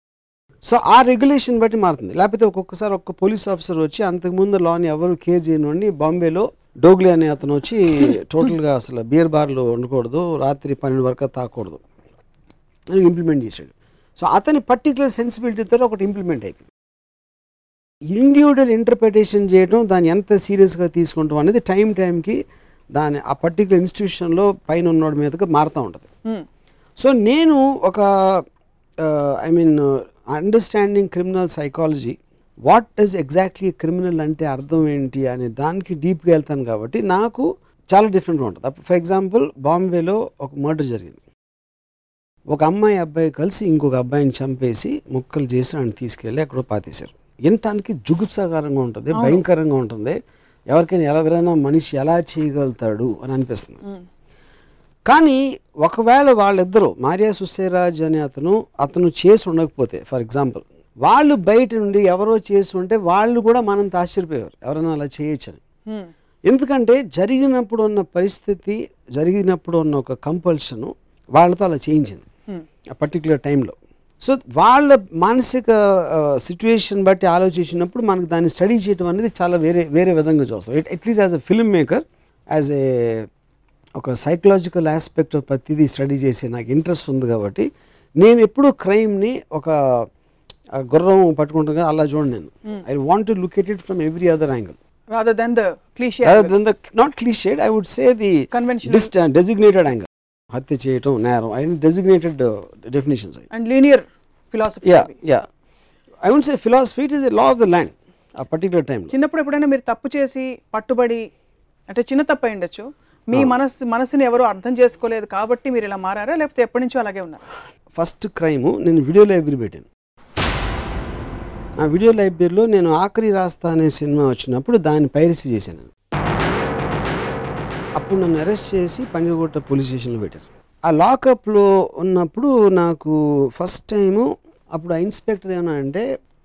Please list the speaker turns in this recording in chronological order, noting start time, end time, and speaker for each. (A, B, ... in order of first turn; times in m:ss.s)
0:00.6-0:11.8 A
0:12.9-0:16.7 A
0:18.1-0:22.4 A
0:22.9-0:26.1 A
0:27.0-0:28.4 A
0:29.0-0:41.2 A
0:42.5-0:50.2 A
0:49.1-0:49.4 B
0:50.7-0:53.8 A
0:55.1-1:05.6 A
1:06.5-1:12.2 A
1:12.9-1:23.3 A
1:24.0-1:27.7 A
1:28.2-1:30.1 A
1:30.7-1:34.8 A
1:35.1-1:36.5 B
1:36.2-1:43.4 A
1:38.5-1:39.1 B
1:43.5-1:45.1 B
1:44.8-1:45.5 A
1:46.2-1:49.1 A
1:49.1-1:51.3 B
1:51.9-1:57.4 B
1:57.9-1:59.9 A
2:01.8-2:05.9 A
2:08.0-2:16.0 A